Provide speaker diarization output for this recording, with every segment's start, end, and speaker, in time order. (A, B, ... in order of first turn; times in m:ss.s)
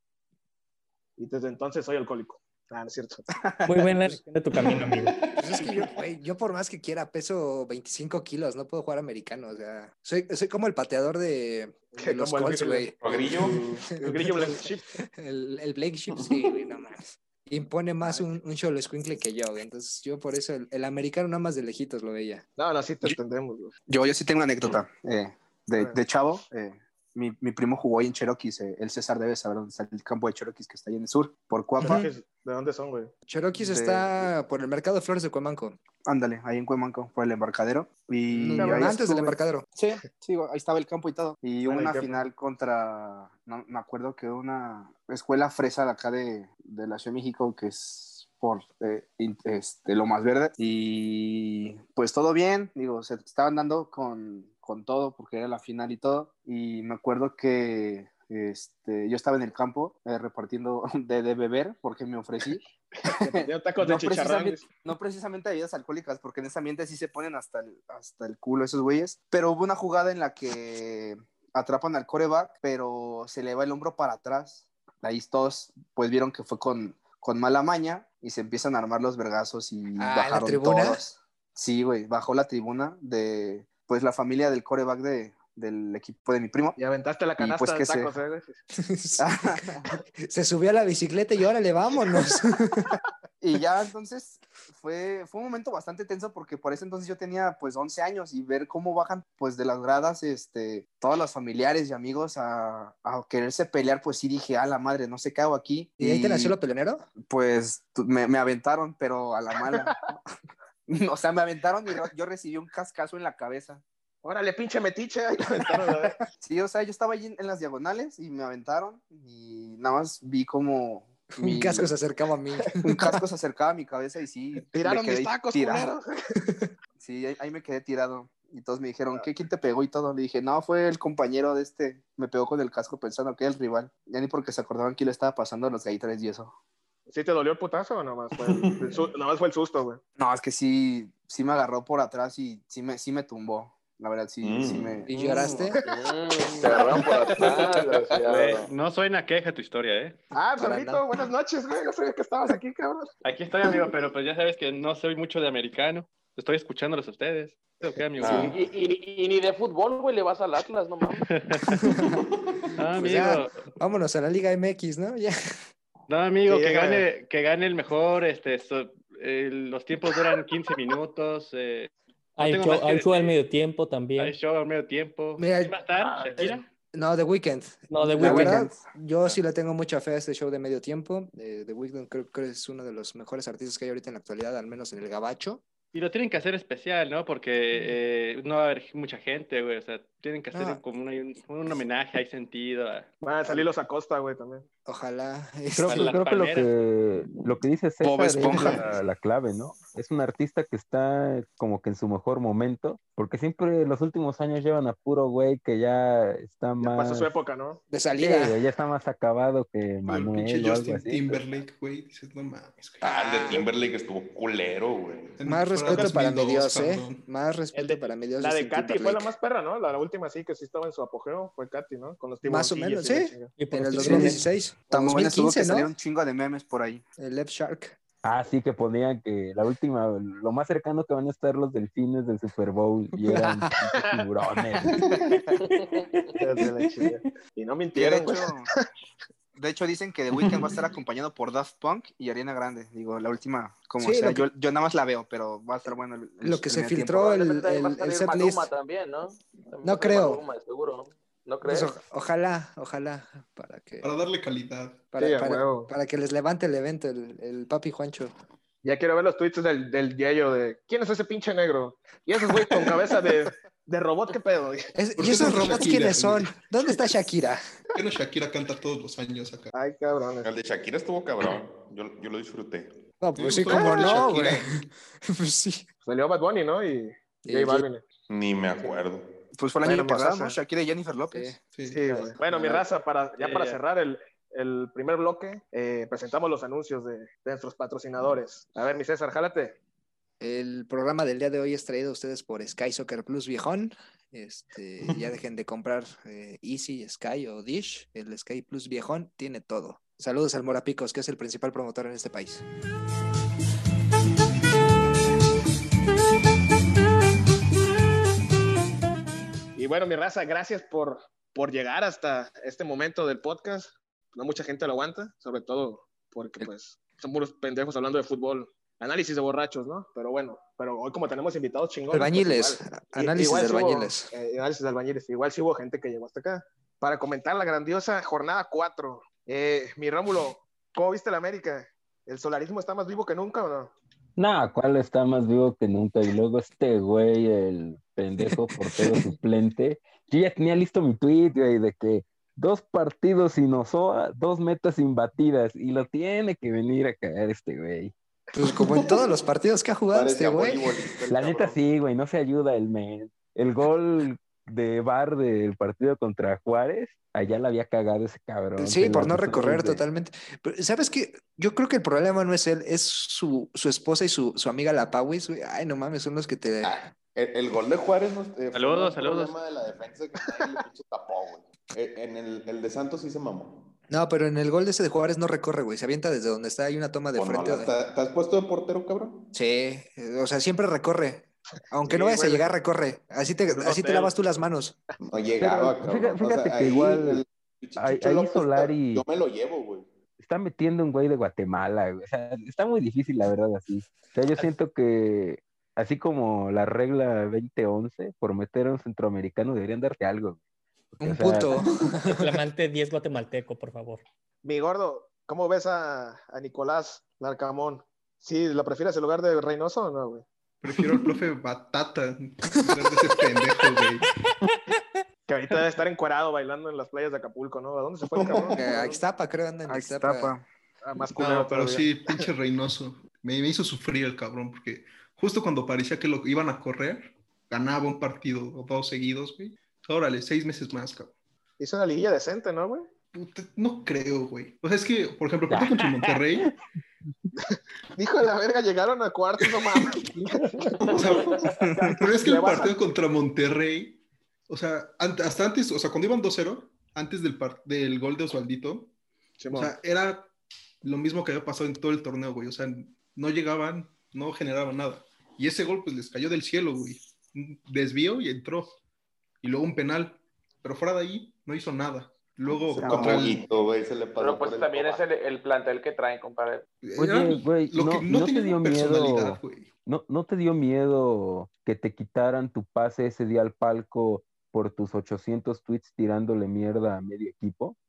0:01.2-0:03.2 A
0:03.6-0:05.1 B
0:04.6-0:05.9 C
0:05.4-0:13.4 D
0:12.0-0:14.8 A
0:13.0-0:13.6 C
0:14.0-0:22.4 D
0:22.6-0:23.7 A
0:23.9-0:32.1 E
0:31.8-0:33.1 A
0:33.3-0:35.8 D
0:33.5-0:34.3 E
0:36.0-1:26.8 E
0:38.4-0:39.6 D
0:38.6-0:38.9 A
0:41.6-0:42.2 A
1:03.1-1:04.6 A
1:20.0-1:21.0 D
1:26.8-1:28.6 A
1:27.4-1:28.1 E
1:28.8-1:32.9 D
1:29.2-1:30.0 E
1:33.4-1:46.6 E
1:46.0-1:47.0 D
1:47.2-1:50.2 E
1:50.9-1:53.8 E
1:54.2-1:56.2 A
1:56.4-2:01.9 E
2:01.4-2:03.2 D
2:02.8-2:05.9 E
2:04.7-2:06.0 A
2:07.0-2:16.5 E
2:17.1-2:20.0 A
2:18.4-2:19.1 C
2:20.2-2:25.1 E
2:24.4-2:25.0 C
2:25.1-2:25.8 D
2:25.9-2:28.7 F
2:26.7-2:30.2 G
2:30.3-2:33.1 A
2:30.6-2:31.0 D
2:33.2-2:38.6 G
2:38.2-2:38.5 C
2:38.2-2:41.3 F
2:41.2-2:42.0 G
2:41.8-2:42.2 D
2:42.1-2:42.7 C
2:42.8-2:43.6 G
2:43.0-2:45.3 D
2:46.1-2:53.4 G
2:46.5-2:47.0 A
2:52.4-2:54.4 B
2:54.2-2:56.7 G
2:55.4-2:55.8 D
2:56.4-3:05.6 D
2:57.9-2:58.7 B
2:58.2-2:58.9 E
3:05.9-3:13.1 G
3:10.5-3:10.8 D
3:13.2-3:14.7 A
3:14.9-3:16.2 D
3:15.7-3:27.3 H
3:15.9-3:16.7 G
3:18.0-3:18.9 E
3:26.8-3:27.8 A
3:27.9-3:28.6 D
3:28.2-3:31.6 H
3:30.1-3:33.0 I
3:33.0-3:35.4 C
3:33.0-3:33.6 D
3:35.4-3:37.2 I
3:35.4-3:39.3 D
3:37.7-3:43.5 A
3:42.4-3:45.9 D
3:43.6-3:44.4 B
3:44.0-3:44.3 E
3:44.9-3:47.0 E
3:47.2-3:48.0 D
3:48.2-3:55.0 H
3:55.6-3:56.0 F
3:56.4-3:58.6 A
3:57.9-3:58.7 E
3:59.6-4:07.3 E
4:00.4-4:00.6 C
4:04.0-4:04.5 D
4:06.4-4:08.7 D
4:07.2-4:12.0 F
4:09.8-4:10.4 D
4:11.6-4:14.1 D
4:14.0-4:15.0 I
4:15.1-4:18.3 D
4:15.2-4:15.9 A
4:18.8-4:24.9 A
4:25.0-4:27.6 D
4:25.2-4:26.6 I
4:28.0-4:29.7 I
4:29.7-4:30.5 A
4:30.4-4:33.0 C
4:33.2-4:35.8 D
4:33.4-4:34.8 I
4:36.0-4:38.0 A
4:37.4-4:37.9 D
4:38.3-4:39.3 C
4:39.6-4:41.6 E
4:39.8-4:40.6 A
4:41.3-4:41.6 D
4:41.8-4:42.0 I
4:41.9-4:49.8 A
4:42.1-4:42.8 D
4:43.4-4:43.8 G
4:50.4-5:02.6 D
5:09.8-5:33.9 A
5:22.1-5:24.3 D
5:34.4-5:48.1 H
5:48.5-5:50.9 D
5:50.1-5:51.8 C
5:51.3-6:00.0 H
5:58.8-6:07.1 D
6:06.8-6:13.9 C
6:08.7-6:09.6 G
6:14.1-6:17.9 D
6:17.4-6:19.5 C
6:19.5-6:25.0 D
6:22.0-6:22.7 A
6:23.7-6:24.4 A
6:25.2-6:30.1 C
6:25.6-6:27.4 H
6:28.0-6:29.2 H
6:30.4-6:40.6 H
6:41.2-6:41.8 H
6:41.2-6:42.4 D
6:42.2-6:44.3 B
6:44.6-6:50.4 A
6:50.8-6:54.3 I
6:55.5-6:59.2 A
6:58.3-6:58.8 C
6:58.8-7:00.5 D
6:59.9-7:00.7 E
7:01.0-7:02.1 A
7:01.4-7:11.3 I
7:11.8-7:13.1 A
7:13.3-7:16.7 I
7:15.7-7:16.3 H
7:17.7-7:21.0 A
7:21.1-7:21.6 C
7:21.2-7:29.1 I
7:21.9-7:23.0 A
7:29.6-7:29.9 A
7:29.7-7:30.5 I
7:31.0-7:39.0 I
7:39.6-7:43.6 I
7:42.9-7:45.2 C
7:43.0-7:43.4 E
7:44.4-7:46.9 F
7:47.0-7:49.9 I
7:47.2-7:58.0 H